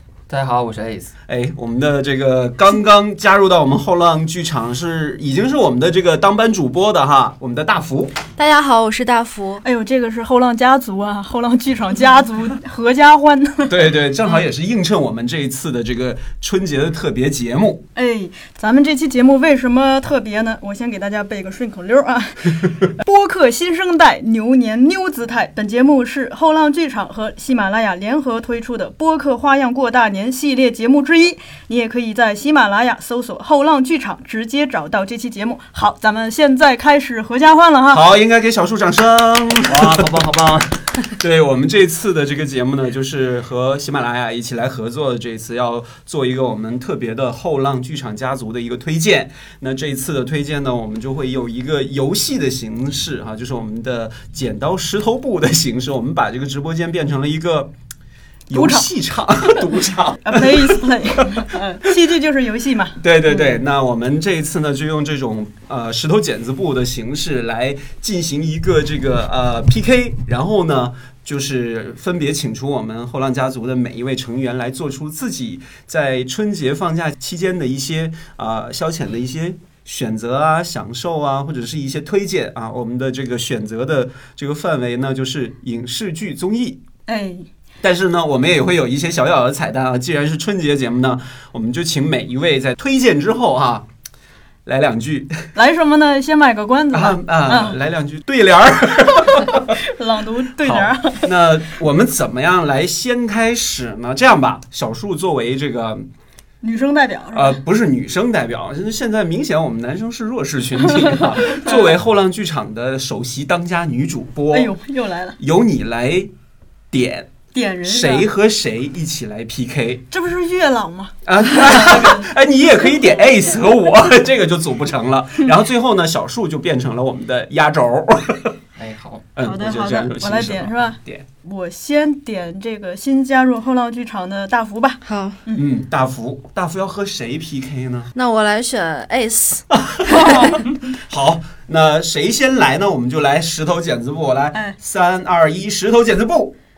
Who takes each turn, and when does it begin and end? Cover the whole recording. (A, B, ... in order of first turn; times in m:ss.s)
0:00.3-0:01.1 A
0:01.3-0:08.2 B
0:08.4-0:09.6 C
0:09.6-0:13.8 D
0:13.6-0:17.8 B
0:17.9-0:38.0 D
0:37.9-0:40.2 B
0:39.7-0:40.7 A
0:41.1-0:57.7 B
0:58.5-1:01.5 B
0:58.5-0:58.9 D
1:00.2-1:03.6 D
1:03.0-1:26.8 B
1:27.1-1:27.5 D
1:27.8-1:33.9 B
1:34.6-1:35.5 B
1:35.5-1:37.8 D
1:36.9-1:39.8 B
1:39.8-1:41.3 D
1:40.6-1:46.1 B
1:46.6-1:47.5 D
1:47.3-1:54.8 B
1:51.6-1:51.9 D
1:54.5-1:55.4 D
1:55.4-1:56.3 B
1:56.9-2:00.0 B
1:57.5-1:58.3 D
2:00.1-2:02.3 D
2:01.2-2:08.5 B
2:08.8-2:09.2 A
2:09.4-2:11.3 B
2:09.4-2:15.6 D
2:15.0-2:15.4 C
2:15.5-2:18.1 B
2:18.1-2:20.5 C
2:19.7-2:26.5 B
2:20.1-2:20.6 D